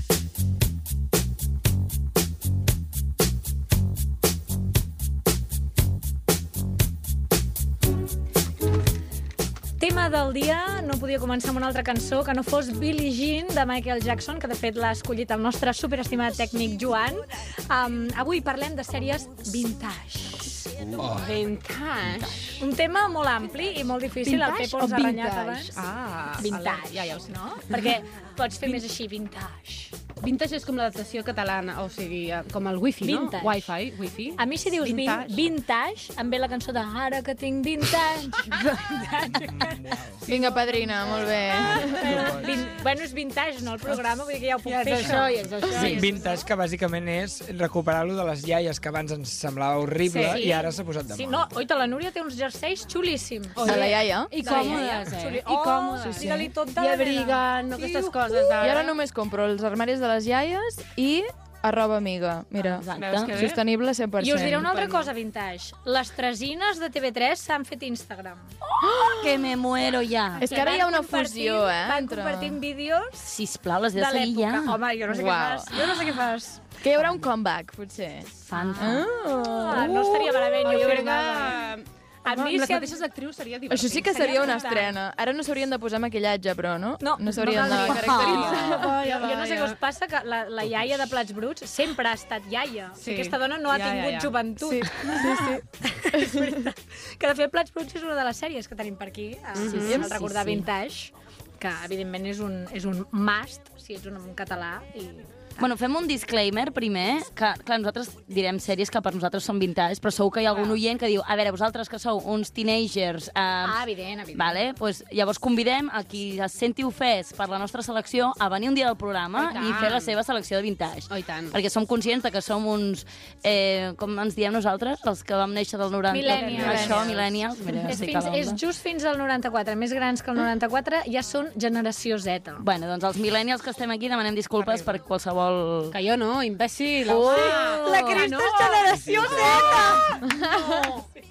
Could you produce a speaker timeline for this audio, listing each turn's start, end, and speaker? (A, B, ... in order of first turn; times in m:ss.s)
0:09.8-0:20.7 A
0:21.0-0:21.3 B
0:21.0-0:22.6 C
0:22.6-0:25.8 A
0:24.2-0:28.0 C
0:26.4-0:29.9 A
0:30.2-0:35.5 C
0:33.0-0:33.7 A
0:34.4-0:41.2 A
0:39.3-0:40.2 B
0:40.2-0:42.2 D
0:40.3-0:41.3 C
0:41.4-0:42.5 B
0:41.8-0:46.2 A
0:44.6-0:46.2 C
0:45.7-0:51.5 B
0:50.0-0:50.5 C
0:50.1-0:58.6 A
0:53.5-0:59.0 C
0:53.6-0:54.7 D
0:56.0-0:56.5 D
0:58.6-1:04.7 D
1:02.8-1:03.4 E
1:02.9-1:03.6 C
1:04.2-1:08.5 A
1:04.4-1:05.1 C
1:08.6-1:10.4 E
1:08.8-1:09.5 D
1:10.4-1:12.6 D
1:10.4-1:13.3 A
1:10.5-1:10.9 C
1:13.2-1:14.8 E
1:13.9-1:16.6 A
1:15.0-1:16.1 D
1:16.8-1:20.1 D
1:18.4-1:21.6 A
1:19.8-1:24.8 C
1:22.2-1:23.0 A
1:23.7-1:29.0 D
1:24.1-1:24.9 A
1:27.0-1:45.3 A
1:27.5-1:29.8 C
1:33.0-1:34.5 C
1:34.6-1:36.6 D
1:39.5-1:40.2 C
1:39.7-1:40.7 E
1:45.6-1:53.8 E
1:53.6-1:54.6 A
1:54.3-2:08.6 E
1:59.3-2:00.1 C
2:01.1-2:01.5 C
2:06.1-2:07.0 A
2:06.3-2:07.2 D
2:06.3-2:07.0 C
2:07.8-2:12.6 A
2:12.6-2:15.9 E
2:14.6-2:15.0 C
2:15.9-2:19.8 C
2:17.1-2:18.3 E
2:17.3-2:20.7 A
2:20.2-2:20.9 D
2:20.5-2:21.1 C